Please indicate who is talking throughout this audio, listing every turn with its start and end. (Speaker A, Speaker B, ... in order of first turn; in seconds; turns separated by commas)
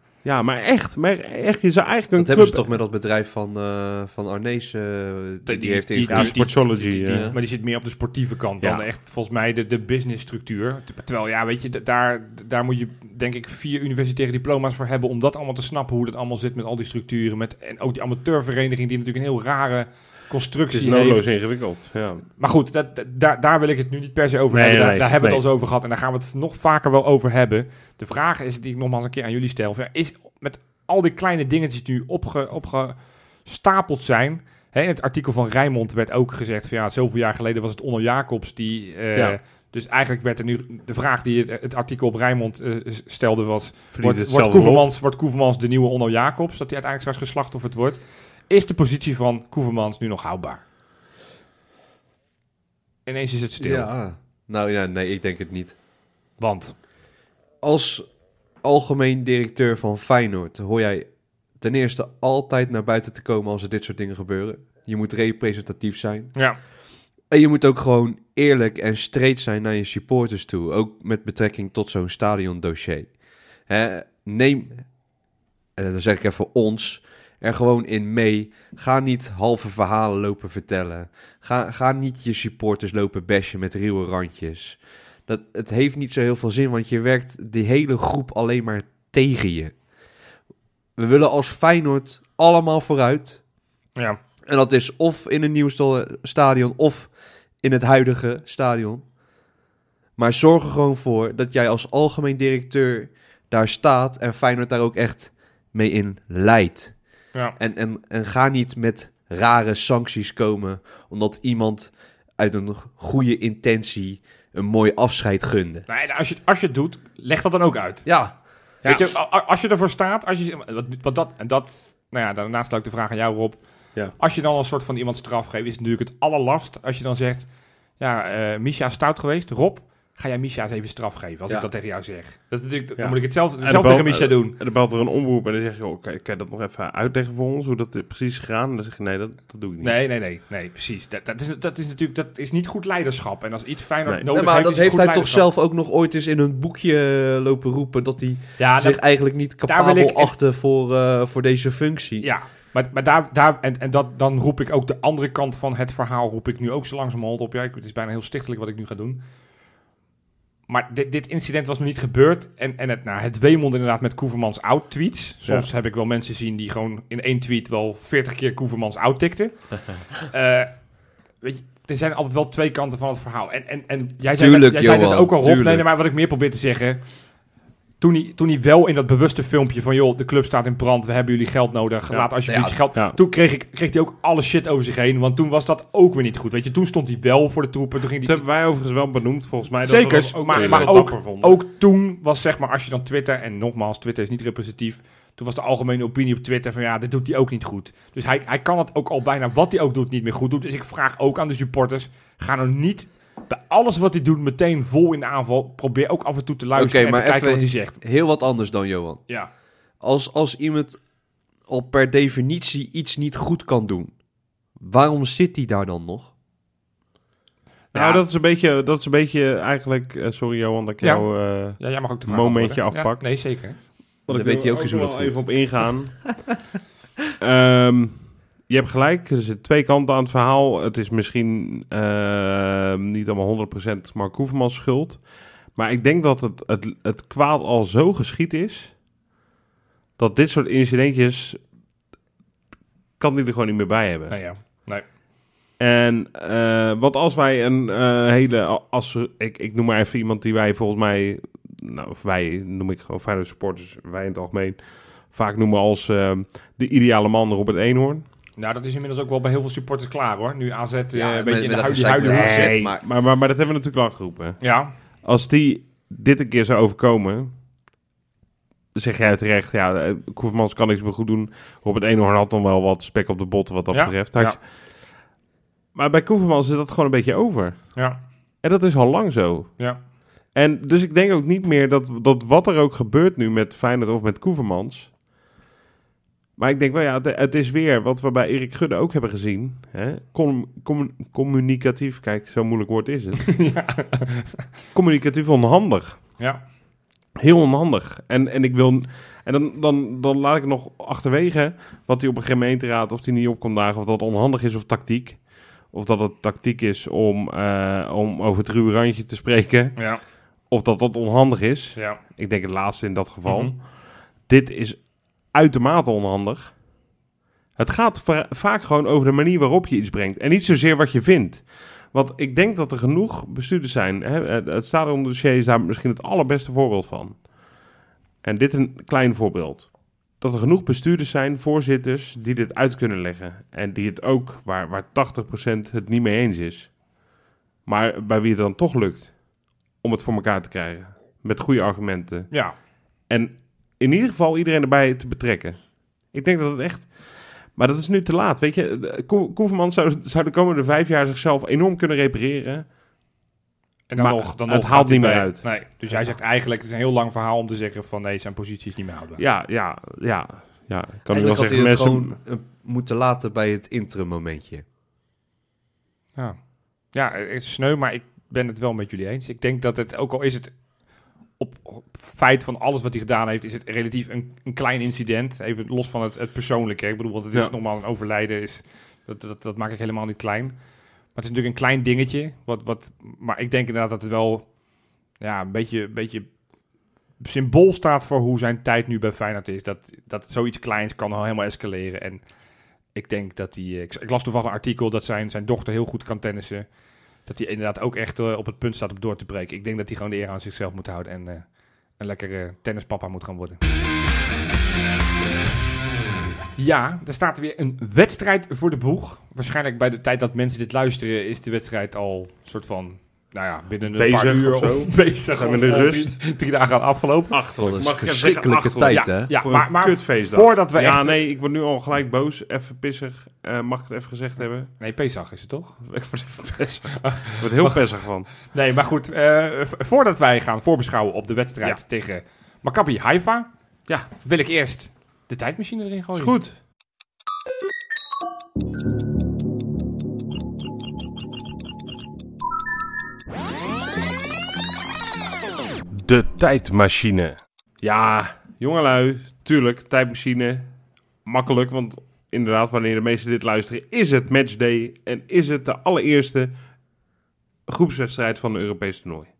Speaker A: 0.2-2.7, Speaker B: 2.1-7.4, Speaker C: 5.4-21.2, Speaker A: 6.1-7.3, Speaker A: 20.7-22.2, Speaker C: 22.4-50.6, Speaker A: 24.5-25.4, Speaker A: 43.9-44.9, Speaker C: 53.0-53.9, Speaker B: 53.6-55.8, Speaker C: 56.4-56.7, Speaker B: 57.6-58.1, Speaker B: 58.6-61.1, Speaker B: 61.6-66.3, Speaker B: 67.3-73.1, Speaker B: 73.7-74.8, Speaker B: 75.8-89.7, Speaker B: 91.0-93.4, Speaker B: 94.5-97.1, Speaker B: 97.6-99.0, Speaker B: 100.2-106.9, Speaker B: 107.6-115.9, Speaker C: 115.9-118.0, Speaker B: 118.0-118.3, Speaker A: 118.8-119.1, Speaker C: 118.8-127.5, Speaker C: 128.0-134.6, Speaker A: 133.0-140.0, Speaker C: 139.8-145.4, Speaker B: 144.3-152.3, Speaker C: 148.6-150.3, Speaker C: 152.2-159.2, Speaker C: 160.7-170.8, Speaker C: 171.4-177.0, Speaker B: 174.4-175.8, Speaker C: 178.0-188.4, Speaker B: 182.4-182.8, Speaker A: 188.2-191.6, Speaker C: 189.8-208.0, Speaker B: 190.6-190.9, Speaker B: 206.7-209.2, Speaker B: 210.0-211.0, Speaker B: 211.7-214.2, Speaker B: 214.8-216.3, Speaker A: 217.9-223.3, Speaker C: 217.9-218.2, Speaker C: 221.0-223.8, Speaker A: 224.3-226.5, Speaker B: 224.3-225.8, Speaker A: 227.4-238.9, Speaker A: 240.2-241.6, Speaker A: 243.2-244.4, Speaker C: 244.3-245.0, Speaker A: 245.8-258.2, Speaker C: 258.6-262.8, Speaker B: 261.1-263.0, Speaker A: 262.2-264.6, Speaker C: 264.6-264.9, Speaker A: 265.2-267.5, Speaker A: 268.9-274.6, Speaker C: 273.9-274.6, Speaker A: 275.9-277.9, Speaker A: 278.6-279.9, Speaker A: 280.5-285.1, Speaker A: 286.6-293.7, Speaker C: 293.5-294.6, Speaker A: 294.9-296.2, Speaker A: 297.4-310.0, Speaker C: 309.9-310.2, Speaker A: 310.7-313.9, Speaker C: 313.4-313.7, Speaker A: 314.4-316.7, Speaker A: 317.8-327.4, Speaker A: 328.4-336.9, Speaker A: 337.9-339.4, Speaker A: 340.0-342.5, Speaker A: 343.3-345.8, Speaker A: 346.3-352.8, Speaker C: 354.1-359.4, Speaker A: 354.2-355.7, Speaker A: 359.4-362.4, Speaker B: 361.3-364.8, Speaker C: 367.1-370.7, Speaker C: 371.6-380.8, Speaker C: 381.3-384.7, Speaker C: 385.4-386.5, Speaker C: 387.4-392.4, Speaker C: 393.1-396.9, Speaker C: 397.4-403.8, Speaker C: 406.8-417.6, Speaker A: 414.1-416.4, Speaker A: 417.5-424.9, Speaker B: 417.8-419.5, Speaker C: 419.1-421.4, Speaker C: 425.0-426.0, Speaker A: 426.1-428.5, Speaker C: 427.2-428.0, Speaker C: 428.6-433.7, Speaker C: 434.4-436.5, Speaker A: 436.3-436.8, Speaker A: 446.1-450.9, Speaker A: 451.4-456.7, Speaker A: 457.9-459.5